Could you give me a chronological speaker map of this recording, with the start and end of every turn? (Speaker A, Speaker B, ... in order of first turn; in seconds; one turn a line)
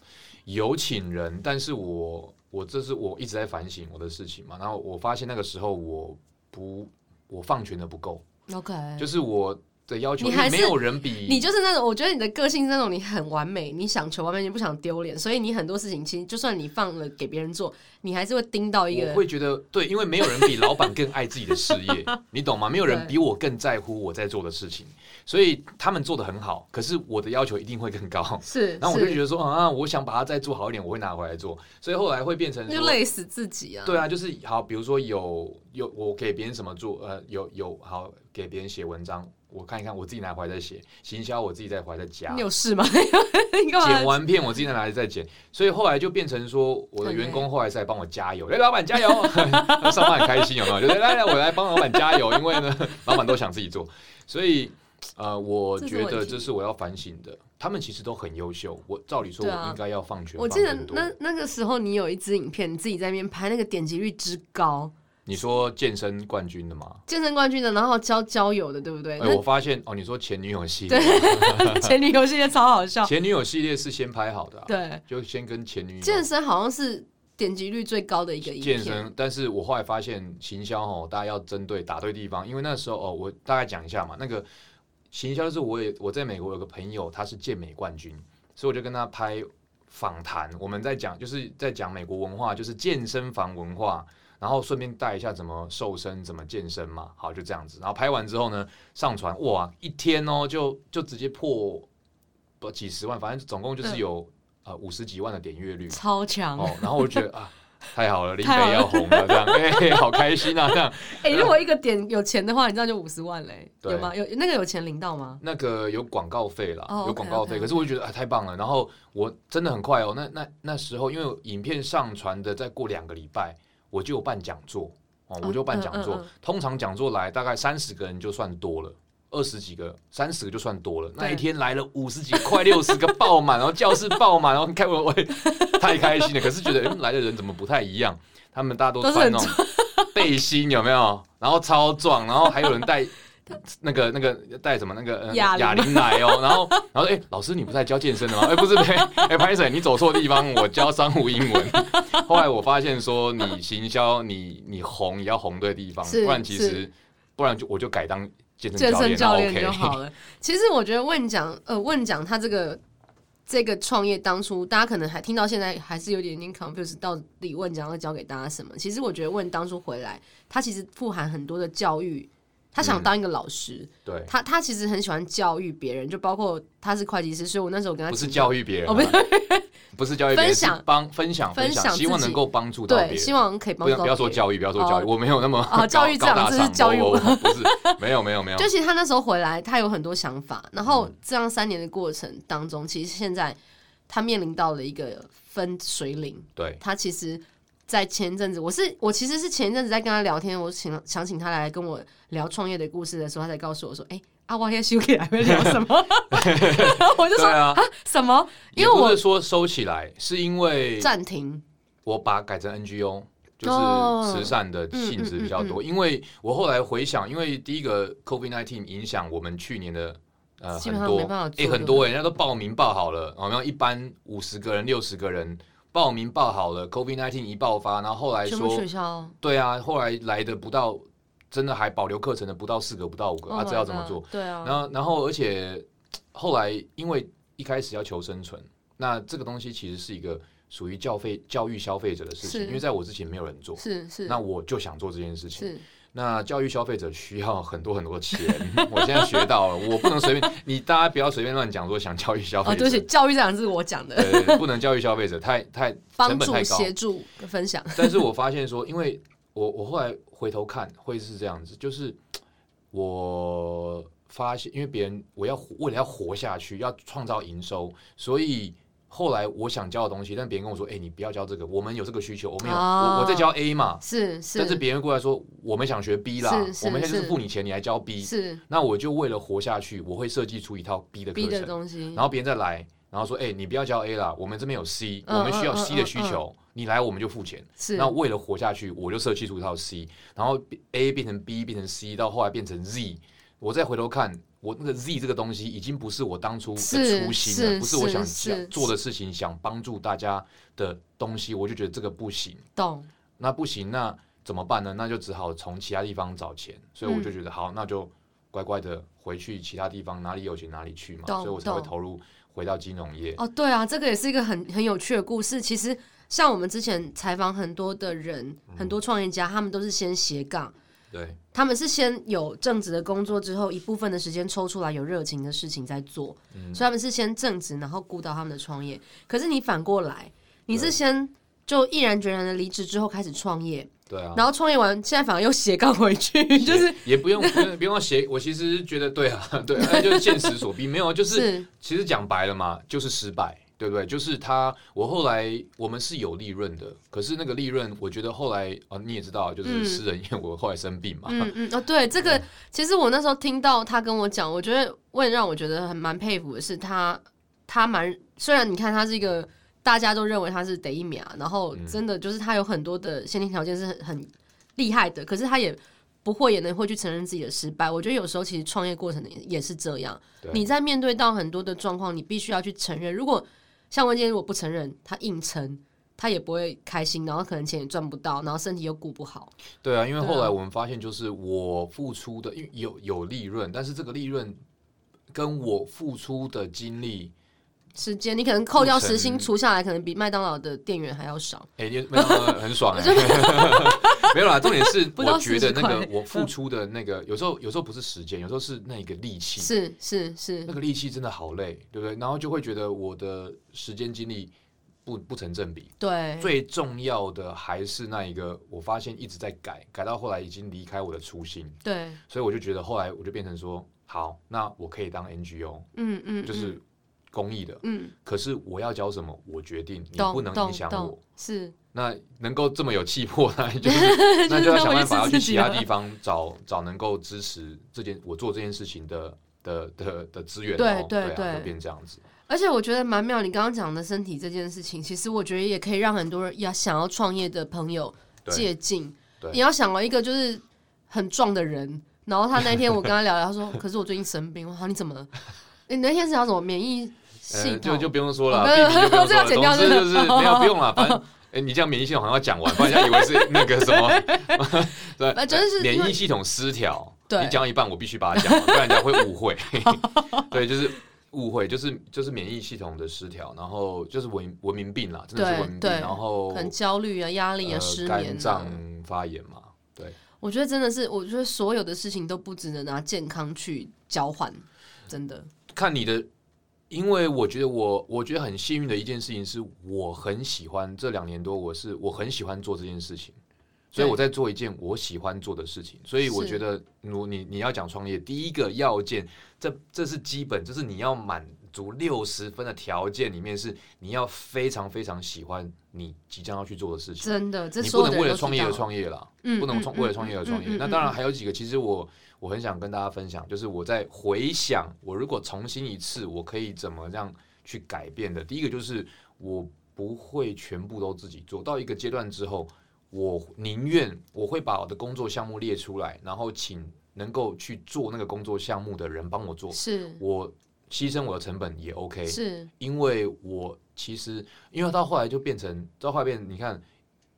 Speaker A: 0.5-8.2
Speaker B: 8.5-9.1
Speaker A: 9.0-11.5
Speaker B: 10.2-19.2
Speaker A: 18.9-33.0
Speaker B: 20.2-20.8
Speaker B: 21.6-21.9
Speaker B: 22.9-23.1
Speaker B: 28.4-29.2
Speaker B: 32.7-34.0
Speaker A: 33.8-42.5
Speaker B: 42.3-44.2
Speaker A: 43.8-61.1
Speaker B: 47.0-47.5
Speaker B: 49.0-52.4
Speaker B: 55.8-56.5
Speaker B: 59.4-59.8
Speaker B: 60.4-64.9
Speaker A: 65.2-67.0
Speaker B: 67.1-69.4
Speaker A: 69.2-71.9
Speaker B: 70.9-73.1
Speaker A: 73.0-76.3
Speaker B: 74.7-75.0
Speaker B: 76.0-79.1
Speaker A: 78.4-84.5
Speaker A: 85.1-101.9
Speaker A: 102.6-106.0
Speaker B: 105.9-107.2
Speaker A: 106.5-111.5
Speaker B: 108.4-110.5
Speaker B: 111.0-115.4
Speaker A: 113.8-114.1
Speaker A: 115.4-139.6
Speaker B: 116.9-117.9
Speaker B: 125.4-126.3
Speaker B: 131.2-131.4
Speaker B: 132.3-133.2
Speaker B: 135.4-136.6
Speaker B: 139.0-140.2
Speaker A: 140.1-160.0
Speaker B: 145.3-146.8
Speaker B: 148.4-149.3
Speaker B: 151.5-152.4
Speaker B: 156.0-156.8
Speaker B: 158.7-162.8
Speaker B: 163.5-179.7
Speaker A: 172.8-173.1
Speaker A: 174.0-174.3
Speaker A: 178.1-179.2
Speaker A: 179.9-188.7
Speaker B: 180.3-180.8
Speaker B: 181.5-185.1
Speaker B: 185.7-188.0
Speaker B: 188.6-193.6
Speaker A: 190.8-191.1
Speaker B: 194.1-209.2
Speaker A: 196.6-196.8
Speaker A: 205.5-207.8
Speaker A: 208.7-211.1
Speaker B: 211.0-211.6
Speaker A: 212.0-228.9
Speaker B: 213.6-215.8
Speaker B: 220.7-222.1
Speaker B: 228.4-229.3
Speaker A: 229.4-253.1
Speaker B: 233.5-234.8
Speaker B: 242.4-242.8
Speaker B: 243.8-244.4
Speaker B: 245.6-245.8
Speaker B: 248.4-250.3
Speaker B: 252.6-254.6
Speaker A: 254.1-256.9
Speaker B: 256.2-258.2
Speaker A: 257.9-262.2
Speaker A: 262.9-274.0
Speaker B: 272.6-274.8
Speaker A: 274.5-302.6
Speaker B: 276.4-277.4
Speaker B: 278.2-278.6
Speaker B: 281.3-282.2
Speaker B: 285.2-286.4
Speaker B: 287.8-288.1
Speaker B: 296.8-298.9
Speaker B: 302.8-303.1
Speaker A: 303.4-313.4
Speaker B: 307.1-307.3
Speaker B: 311.2-311.9
Speaker B: 313.4-320.7
Speaker A: 318.7-319.0
Speaker A: 321.1-321.4
Speaker B: 321.5-337.7
Speaker A: 326.5-326.8
Speaker A: 330.7-330.9
Speaker A: 334.1-334.5
Speaker A: 336.6-351.5
Speaker B: 339.8-340.5
Speaker B: 341.3-341.7
Speaker B: 349.6-350.0
Speaker B: 351.3-379.5
Speaker A: 361.7-362.0
Speaker A: 379.8-384.6
Speaker B: 380.2-380.5
Speaker A: 385.3-387.3
Speaker B: 387.9-396.5
Speaker A: 388.8-389.5
Speaker A: 391.8-399.7
Speaker B: 399.6-400.7
Speaker A: 400.7-404.5
Speaker A: 405.0-411.8
Speaker B: 406.0-406.5
Speaker B: 411.8-412.2
Speaker A: 412.3-415.9
Speaker B: 415.9-416.8
Speaker A: 416.4-421.2
Speaker B: 417.8-418.1
Speaker B: 420.2-421.7
Speaker A: 421.9-432.2
Speaker B: 423.8-425.9
Speaker B: 430.7-431.7
Speaker B: 432.5-445.3
Speaker B: 445.9-451.2
Speaker A: 447.5-466.7
Speaker B: 452.7-454.7
Speaker B: 455.3-456.2
Speaker B: 457.3-457.6
Speaker B: 458.3-459.2
Speaker B: 459.8-460.5
Speaker B: 465.3-468.8
Speaker A: 467.6-470.2
Speaker B: 470.4-475.5
Speaker A: 475.7-476.3
Speaker A: 476.9-483.4
Speaker A: 483.9-526.8
Speaker B: 486.2-486.6
Speaker B: 497.2-498.9
Speaker B: 499.4-501.2
Speaker B: 519.7-520.2
Speaker B: 522.3-522.7